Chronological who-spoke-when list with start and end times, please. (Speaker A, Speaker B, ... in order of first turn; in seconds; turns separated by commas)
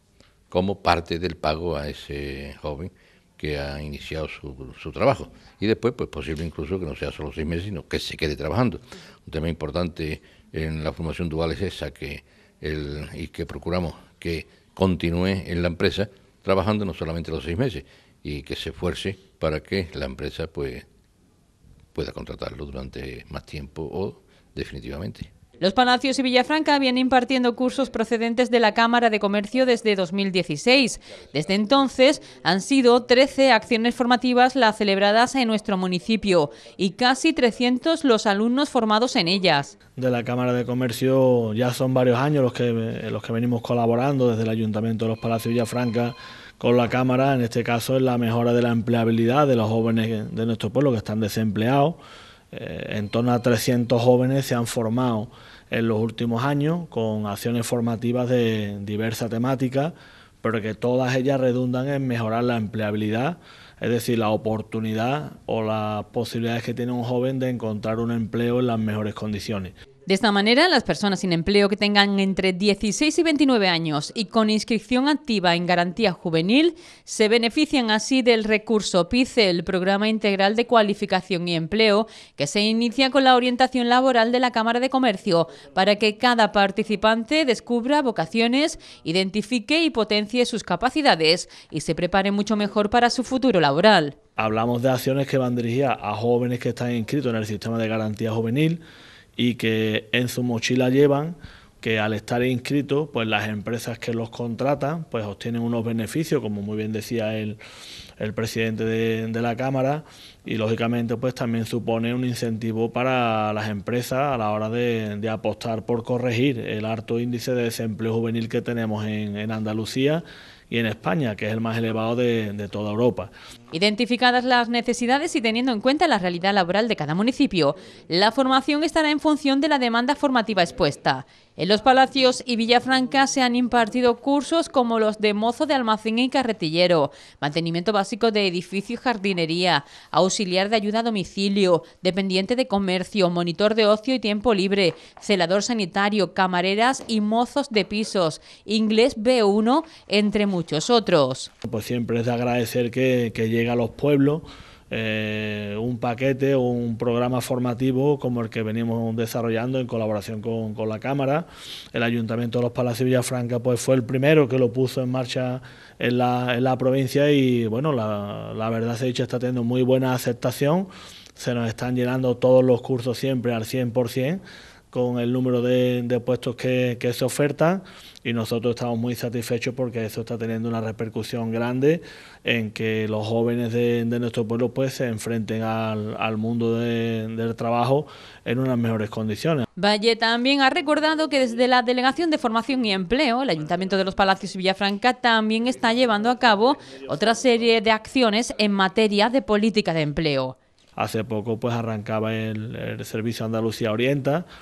Speaker A: 0.5-20.9, Speaker A: 21.9-25.3, Speaker B: 25.6-39.7, Speaker C: 40.0-52.0, Speaker C: 52.5-69.7, Speaker B: 70.1-94.2, Speaker C: 94.4-98.8, Speaker C: 99.4-107.6, Speaker C: 108.2-123.3, Speaker B: 123.7-151.5, Speaker C: 151.6-174.4, Speaker C: 174.9-189.6, Speaker B: 189.8-200.6, Speaker C: 201.0-204.5